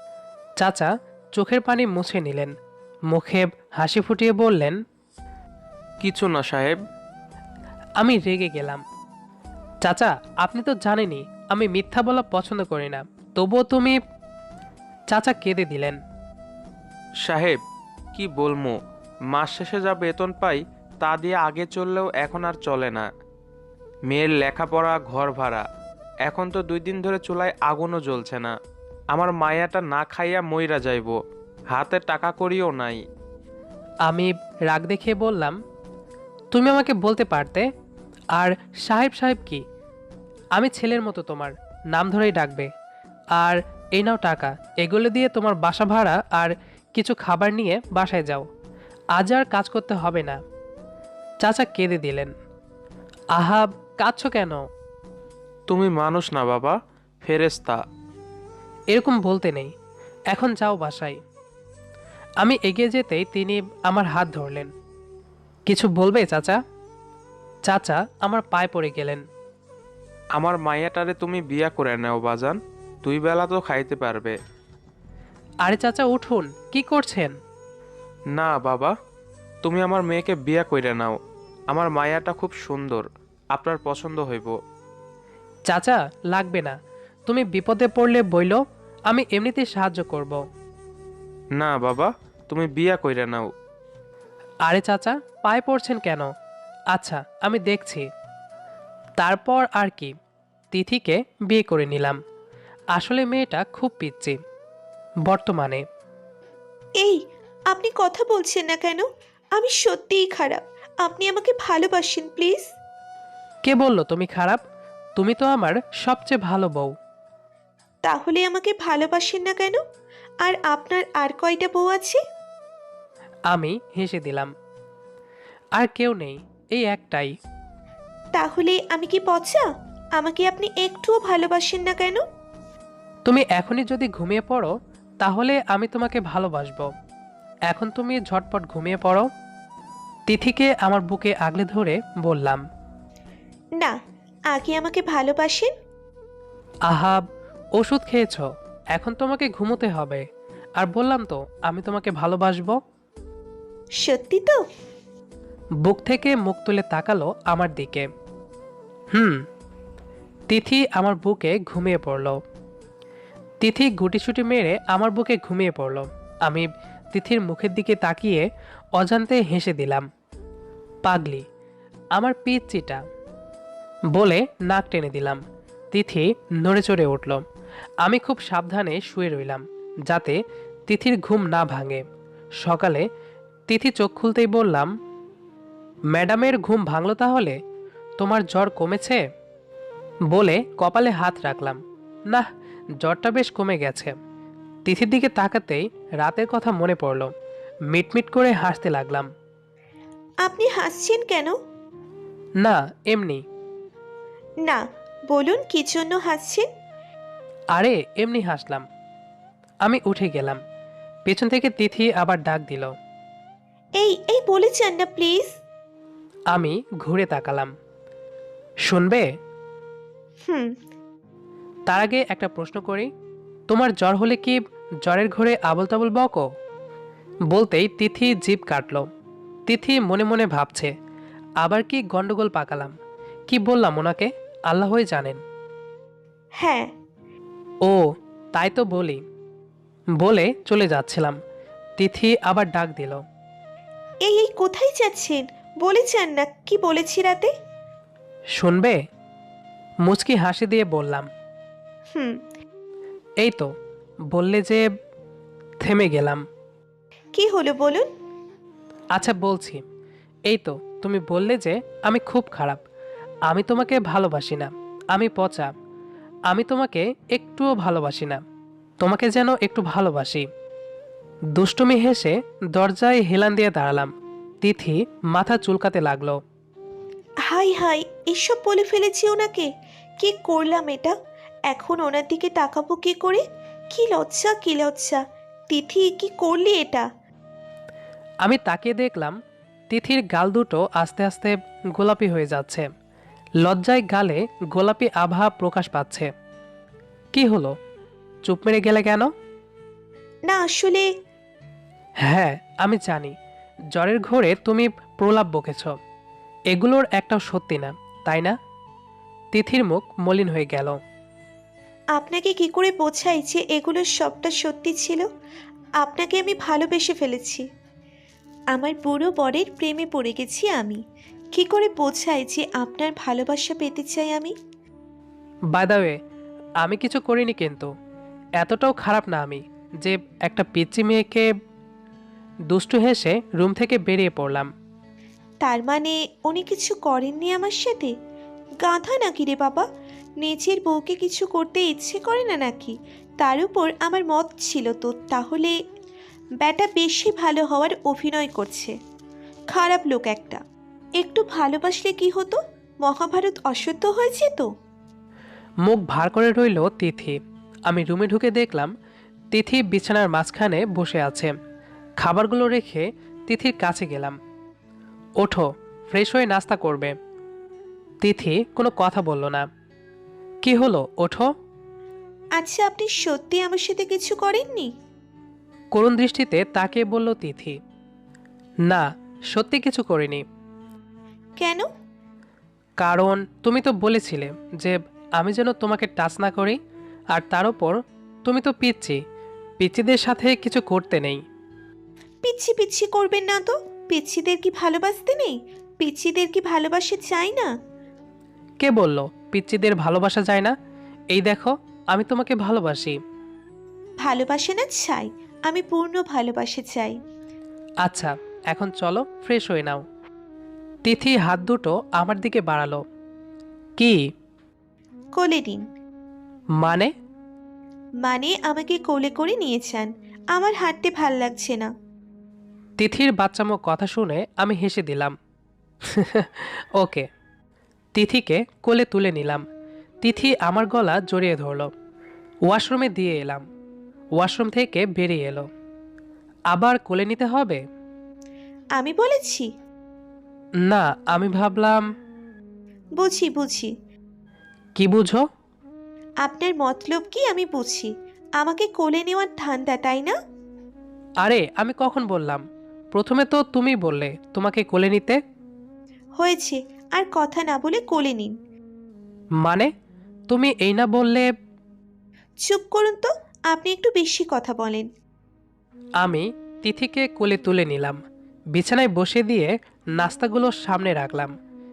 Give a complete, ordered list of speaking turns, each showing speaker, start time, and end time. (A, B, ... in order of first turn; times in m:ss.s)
0:00.6-0:02.5 A
0:03.1-0:04.8 A
0:06.0-0:06.8 B
0:08.0-0:08.8 A
0:09.8-0:14.0 A
0:15.1-0:16.0 A
0:17.2-0:17.6 B
0:18.1-0:18.8 B
0:19.3-0:23.0 B
0:24.1-0:25.6 B
0:26.2-0:28.5 B
0:29.1-0:31.2 B
0:31.7-0:33.0 B
0:34.1-0:35.6 A
0:36.5-0:37.7 A
0:38.4-0:39.6 A
0:40.5-0:42.7 A
0:43.4-0:48.4 A
0:49.2-0:50.4 A
0:51.4-0:52.3 A
0:53.4-0:54.6 A
0:55.7-0:57.8 B
0:58.9-0:59.7 A
1:00.3-1:01.2 A
1:02.4-1:04.7 A
1:05.7-1:06.6 A
1:07.7-1:09.2 A
1:10.4-1:14.3 B
1:15.6-1:17.3 A
1:18.3-1:18.9 B
1:19.6-1:21.2 B
1:21.7-1:24.5 B
1:25.7-1:26.8 A
1:27.3-1:30.4 A
1:31.5-1:33.5 B
1:34.7-1:36.3 A
1:36.9-1:38.1 A
1:39.2-1:40.1 A
1:40.7-1:42.2 A
1:42.9-1:44.4 A
1:45.3-1:45.8 A
1:47.0-1:52.7 C
1:53.6-1:54.6 A
1:55.2-1:56.9 A
1:58.0-1:59.8 C
2:00.4-2:02.2 C
2:03.5-2:04.5 A
2:05.8-2:07.3 A
2:08.3-2:12.2 C
2:13.3-2:16.9 A
2:17.7-2:19.3 A
2:20.3-2:22.6 A
2:24.5-2:25.7 C
2:26.9-2:27.2 A
2:27.8-2:30.2 A
2:30.8-2:32.8 A
2:34.0-2:34.6 C
2:35.8-2:38.1 A
2:40.5-2:42.4 A
2:43.6-2:50.0 A
2:51.0-2:51.4 A
2:52.2-2:53.0 A
2:54.1-2:55.4 A
2:55.9-2:57.4 A
2:58.0-3:02.0 A
3:02.6-3:03.0 A
3:03.7-3:04.9 A
3:06.1-3:07.6 A
3:08.2-3:09.2 A
3:10.3-3:11.8 A
3:13.0-3:14.1 A
3:14.9-3:17.3 A
3:17.9-3:19.3 A
3:20.4-3:21.5 C
3:22.6-3:23.4 A
3:24.6-3:26.6 C
3:27.8-3:28.8 A
3:29.8-3:30.6 A
3:31.3-3:32.9 A
3:34.0-3:35.6 C
3:36.5-3:37.7 A
3:38.9-3:39.2 A
3:40.5-3:40.7 C
3:41.9-3:43.1 A
3:43.7-3:46.4 A
3:47.5-3:49.0 A
3:49.7-3:50.9 A
3:51.6-3:52.9 A
3:53.5-3:55.4 A
3:56.6-3:56.9 C
3:58.5-3:59.2 A
4:00.2-4:01.4 A
4:02.0-4:03.2 A
4:04.2-4:07.5 C
4:08.6-4:09.0 A
4:10.0-4:11.3 A
4:12.1-4:12.4 C
4:13.4-4:13.7 A
4:14.3-4:14.8 A
4:15.8-4:16.4 A
4:17.3-4:18.1 C
4:19.2-4:19.8 A
4:20.5-4:22.8 A
4:23.5-4:25.7 A
4:26.5-4:28.4 A
4:29.0-4:30.5 A
4:31.6-4:34.1 A
4:34.6-4:36.4 A
4:37.5-4:41.1 C
4:41.7-4:47.1 C
4:48.4-4:49.4 A
4:49.9-4:52.9 A
4:53.6-4:56.3 A
4:57.3-4:57.7 A
4:58.5-4:59.3 A
5:00.5-5:01.1 C
5:02.2-5:03.3 A
5:03.9-5:05.9 A
5:06.7-5:08.5 A
5:09.5-5:11.0 A
5:12.2-5:15.3 C
5:16.0-5:17.6 C
5:18.7-5:21.0 C
5:21.5-5:24.5 C
5:25.7-5:26.2 A
5:26.8-5:27.9 A
5:28.6-5:31.4 A
5:32.7-5:34.7 A
5:35.6-5:38.1 C
5:38.8-5:39.8 C
5:40.4-5:45.8 C
5:46.6-5:48.9 C
5:49.7-5:50.6 C
5:51.2-5:54.7 C
5:55.8-5:58.9 A
5:59.5-6:01.5 A
6:02.2-6:04.4 A
6:05.4-6:07.1 A
6:08.2-6:09.6 A
6:10.6-6:11.5 A
6:12.6-6:14.9 C
6:15.9-6:17.8 A
6:18.9-6:20.4 A
6:21.6-6:21.8 C
6:23.0-6:26.8 A
6:27.3-6:29.2 A
6:29.8-6:31.4 A
6:32.4-6:37.7 C
6:38.8-6:40.7 A
6:41.3-6:43.2 A
6:44.2-6:47.2 C
6:48.0-6:50.0 A
6:51.0-6:53.0 A
6:55.4-6:55.8 C
6:56.8-6:57.1 A
6:58.2-7:01.9 C
7:03.0-7:05.3 A
7:06.1-7:07.3 A
7:08.2-7:09.6 A
7:10.2-7:11.9 A
7:12.7-7:13.6 A
7:14.4-7:15.7 A
7:16.7-7:17.8 A
7:19.0-7:19.7 C
7:20.8-7:22.0 A
7:23.2-7:23.9 C
7:25.0-7:25.4 A
7:26.4-7:30.4 C
7:31.4-7:35.4 A
7:36.4-7:38.5 C
7:39.6-7:39.9 A
7:40.5-7:41.5 A
7:42.6-7:45.1 C
7:46.2-7:48.2 A
7:48.8-7:51.5 A